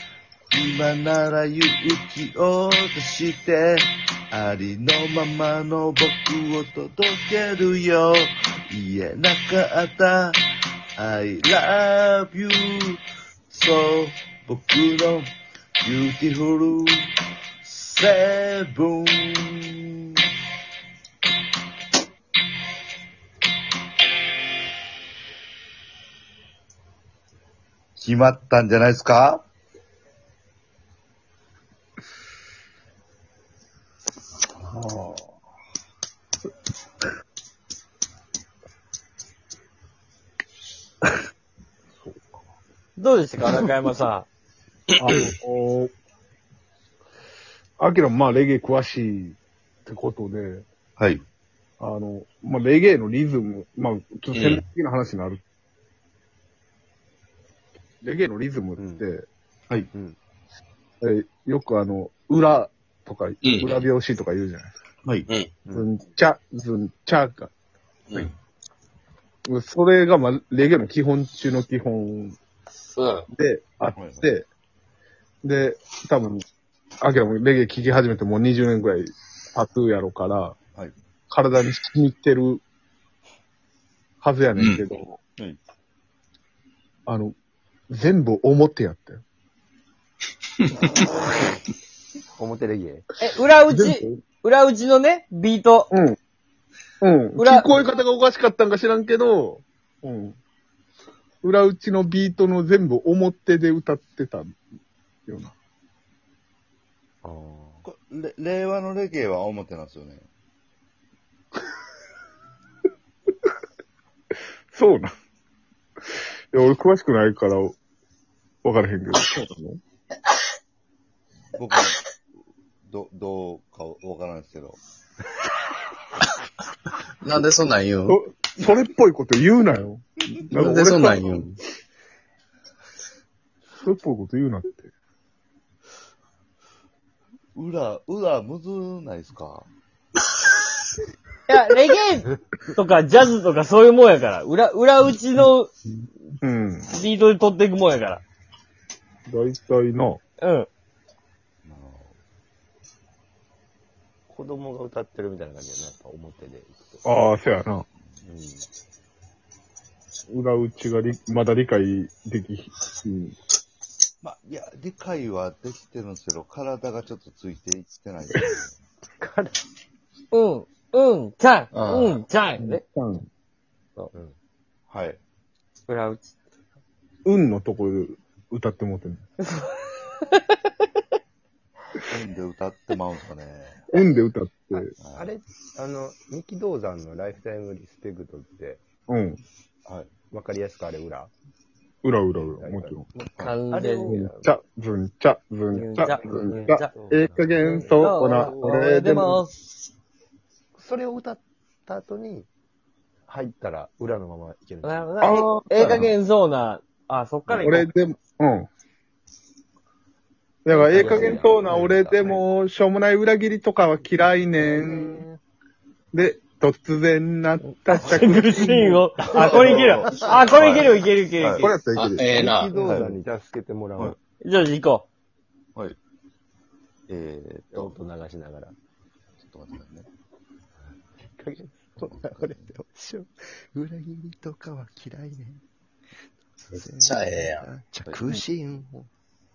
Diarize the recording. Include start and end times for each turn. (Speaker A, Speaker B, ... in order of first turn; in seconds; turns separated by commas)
Speaker A: 0.5-10.4, Speaker A: 11.0-15.3, Speaker A: 15.8-19.8, Speaker A: 28.0-29.4, Speaker B: 34.7-35.3, Speaker B: 42.0-42.3, Speaker C: 43.0-44.3, Speaker B: 45.0-45.9, Speaker B: 47.8-50.7, Speaker A: 51.0-51.2, Speaker B: 51.8-55.4, Speaker D: 54.3-54.6, Speaker B: 58.0-59.2, Speaker E: 58.8-59.0, Speaker B: 61.0-64.7, Speaker D: 63.4-63.8, Speaker B: 65.7-67.5, Speaker B: 69.5-72.4, Speaker D: 72.9-73.3, Speaker B: 73.3-74.5, Speaker A: 74.0-74.3, Speaker B: 75.4-76.4, Speaker B: 77.0-80.6, Speaker B: 81.3-82.6, Speaker B: 84.2-85.2, Speaker D: 84.6-84.8, Speaker B: 87.1-87.3, Speaker B: 87.9-89.2, Speaker D: 90.6-90.9, Speaker E: 92.4-93.0, Speaker C: 93.2-95.9, Speaker B: 93.7-94.2, Speaker B: 95.9-96.2, Speaker B: 97.0-100.4, Speaker C: 97.4-97.7, Speaker B: 101.4-104.5, Speaker B: 105.3-105.5, Speaker E: 107.2-107.8, Speaker A: 107.8-110.3, Speaker B: 114.7-115.1, Speaker B: 116.5-117.8, Speaker B: 118.6-119.8, Speaker A: 121.5-122.0, Speaker A: 122.9-124.8, Speaker D: 127.2-128.2, Speaker B: 128.1-131.4, Speaker D: 130.5-131.6, Speaker B: 133.8-134.8, Speaker A: 137.6-139.7, Speaker C: 141.5-145.7, Speaker B: 146.4-146.9, Speaker C: 146.9-148.2, Speaker B: 149.3-150.2, Speaker C: 150.4-150.7, Speaker A: 151.7-152.2, Speaker E: 154.3-157.0, Speaker B: 157.0-157.9, Speaker E: 158.2-158.7, Speaker B: 160.3-163.3, Speaker A: 164.2-168.7, Speaker E: 169.2-169.6, Speaker C: 170.3-172.8, Speaker D: 171.7-172.2, Speaker B: 172.6-173.3, Speaker A: 174.9-175.2, Speaker C: 175.9-176.3, Speaker B: 177.3-179.2, Speaker C: 179.4-179.7, Speaker A: 182.1-183.8, Speaker B: 183.9-184.9, Speaker E: 184.8-188.9, Speaker A: 185.0-185.3, Speaker B: 189.1-189.4, Speaker E: 190.3-191.3, Speaker B: 192.0-193.1, Speaker E: 192.4-193.0, Speaker C: 193.2-194.2, Speaker E: 193.7-194.3, Speaker B: 194.1-199.4, Speaker C: 195.7-196.9, Speaker E: 196.3-197.8, Speaker C: 197.6-199.5, Speaker E: 200.8-202.5, Speaker E: 203.3-205.2, Speaker C: 204.8-207.9, Speaker B: 205.2-206.1, Speaker B: 207.6-208.7, Speaker B: 210.7-215.2, Speaker E: 210.9-212.3, Speaker C: 210.9-211.6, Speaker B: 216.1-220.1, Speaker C: 217.6-221.7, Speaker A: 219.3-221.7, Speaker E: 219.4-219.8, Speaker B: 221.6-222.4, Speaker D: 221.9-222.7, Speaker E: 222.3-224.2, Speaker A: 222.7-223.2, Speaker C: 224.4-225.1, Speaker A: 227.1-227.9, Speaker E: 227.7-228.8, Speaker A: 229.4-230.1, Speaker E: 231.4-235.6, Speaker A: 232.0-232.8, Speaker A: 234.6-235.4, Speaker D: 236.7-237.7, Speaker E: 236.8-237.2, Speaker A: 237.0-239.1, Speaker E: 237.9-238.4